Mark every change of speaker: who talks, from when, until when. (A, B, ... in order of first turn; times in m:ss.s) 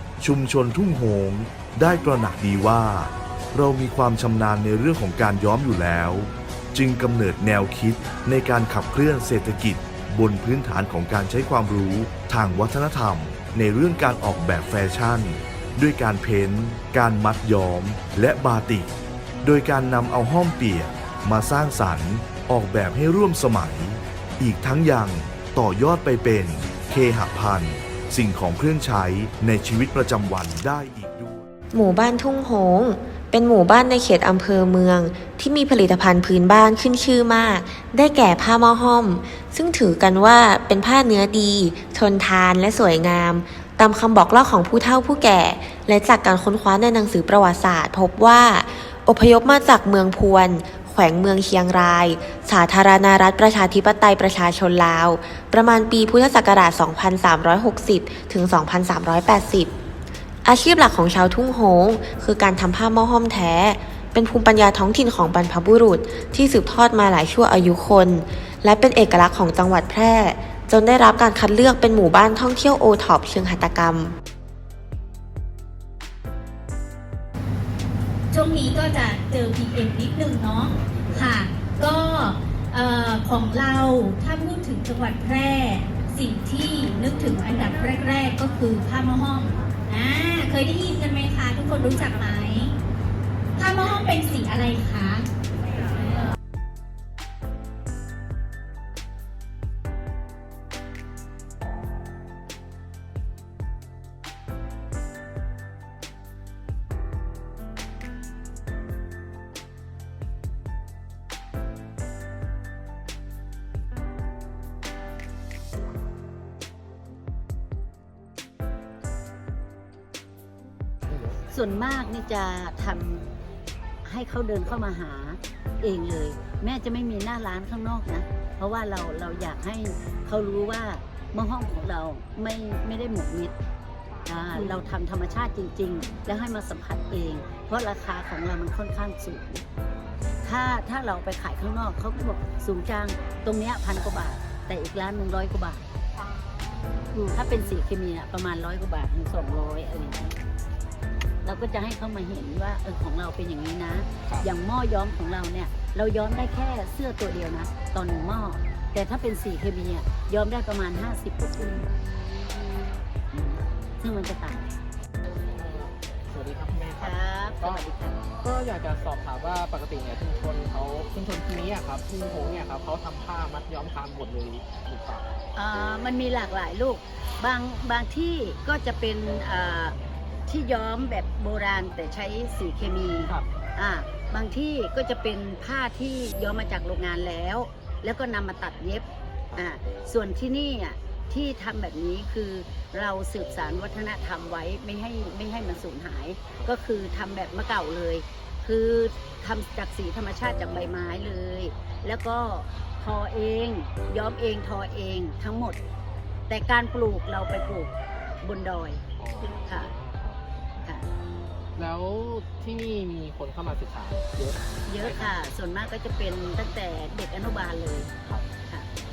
0:00.2-0:18.9 A
0:19.4-0:31.5 A
0:31.7-0:59.7 B
1:00.4-1:14.2 B
1:18.3-1:32.7 C
1:33.6-1:35.3 C
2:01.1-2:01.4 D
2:01.5-2:03.3 E
2:04.0-2:13.6 E
2:14.3-2:19.6 E
2:20.4-2:25.9 E
2:27.0-2:27.3 D
2:27.3-2:30.4 E
2:31.4-2:41.9 E
2:43.3-2:44.8 E
2:45.5-2:47.9 D
2:47.0-2:48.2 E
2:48.4-2:55.4 D
2:55.6-3:00.0 E
3:00.5-3:25.8 E
3:26.5-3:29.0 E
3:29.2-3:30.4 D
3:31.8-3:35.4 D
3:34.9-3:38.1 E